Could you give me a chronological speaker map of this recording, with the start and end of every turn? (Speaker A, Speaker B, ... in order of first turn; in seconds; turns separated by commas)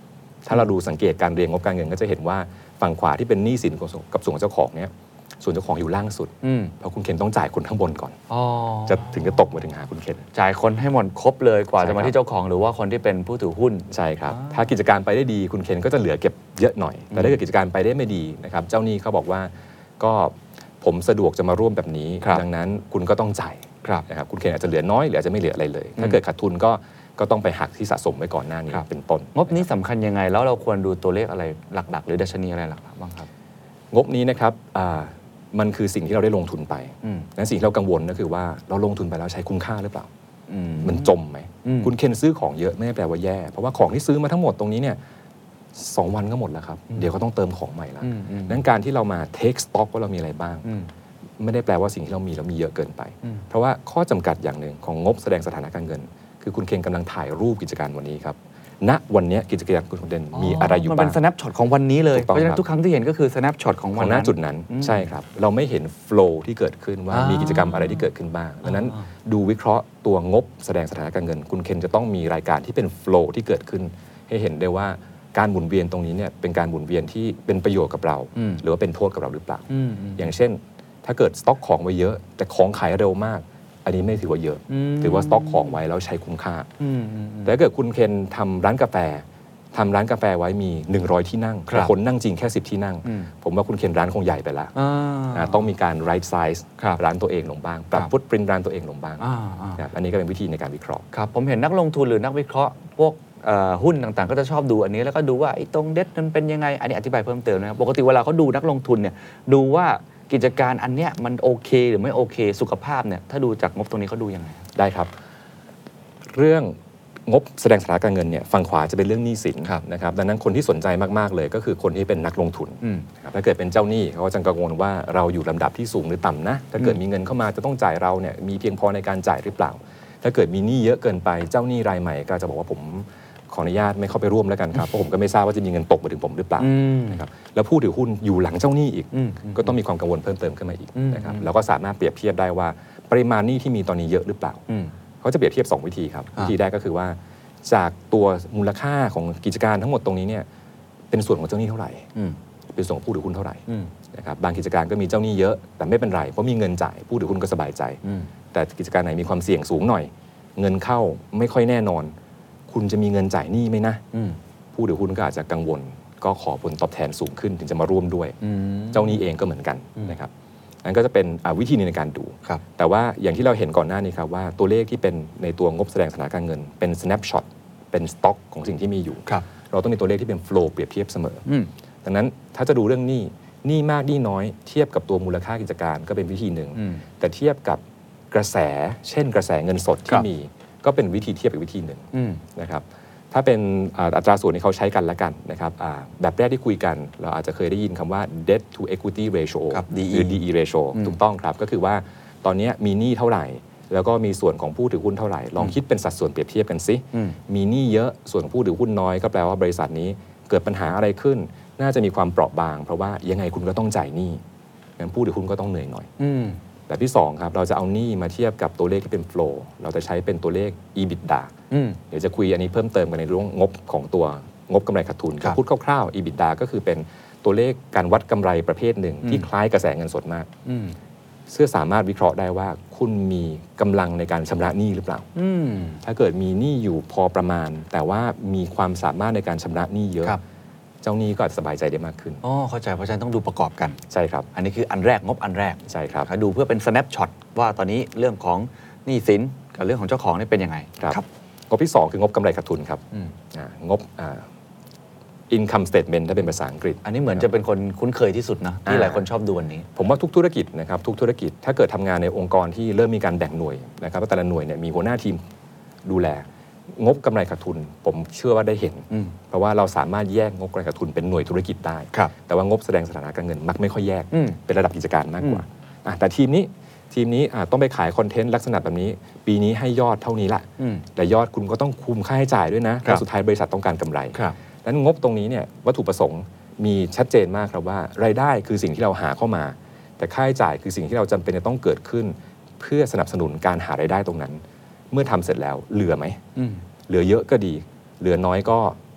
Speaker A: 0.5-8.2, Speaker B: 6.4-6.7, Speaker B: 8.3-9.4, Speaker A: 8.9-10.3, Speaker B: 10.3-14.6, Speaker A: 11.8-12.2, Speaker A: 13.9-29.6, Speaker B: 17.1-17.4, Speaker B: 28.7-33.3, Speaker A: 33.9-40.1, Speaker B: 37.0-37.3, Speaker B: 40.5-41.9, Speaker A: 40.8-45.0, Speaker A: 45.7-50.7, Speaker B: 48.0-48.6, Speaker A: 51.4-61.2, Speaker B: 60.3-65.1, Speaker A: 62.1-62.6, Speaker A: 64.0-86.7, Speaker B: 67.1-68.1, Speaker B: 68.7-69.0, Speaker B: 78.4-78.6, Speaker B: 79.7-80.3, Speaker B: 84.7-85.8, Speaker B: 86.8-87.5, Speaker A: 87.5-94.7, Speaker B: 93.0-93.3, Speaker B: 94.8-95.7, Speaker A: 95.3-101.0, Speaker B: 99.2-99.8, Speaker B: 101.1-114.7, Speaker A: 114.8-115.1, Speaker A: 116.3-144.6, Speaker B: 122.8-123.1, Speaker B: 136.6-137.2, Speaker B: 139.1-139.7, Speaker B: 140.9-141.5, Speaker A: 145.2-150.5, Speaker A: 151.1-152.1, Speaker A: 152.7-158.0, Speaker B: 158.0-158.3, Speaker A: 158.5-162.1, Speaker A: 162.7-164.0, Speaker B: 164.1-164.4, Speaker A: 164.7-168.4, Speaker B: 168.4-169.2, Speaker A: 168.9-170.3, Speaker A: 170.8-181.4, Speaker A: 182.0-214.4, Speaker B: 186.8-187.0, Speaker B: 192.1-192.4, Speaker B: 199.7-200.4, Speaker A: 215.0-216.1, Speaker B: 216.2-216.6, Speaker A: 216.9-221.5, Speaker B: 221.7-222.0, Speaker A: 222.1-230.5, Speaker B: 229.2-229.5, Speaker B: 230.7-231.0, Speaker A: 231.5-235.3, Speaker B: 235.3-236.0, Speaker A: 236.0-240.4, Speaker A: 241.0-242.4, Speaker B: 242.4-244.0, Speaker A: 244.1-244.5, Speaker B: 244.5-251.3, Speaker A: 245.9-246.3, Speaker A: 251.0-254.5, Speaker A: 255.5-257.5, Speaker B: 257.0-259.9, Speaker A: 258.9-259.2, Speaker A: 260.0-265.4, Speaker A: 266.1-296.4, Speaker B: 274.3-274.6, Speaker B: 280.8-281.1, Speaker B: 296.6-296.8, Speaker A: 297.1-299.0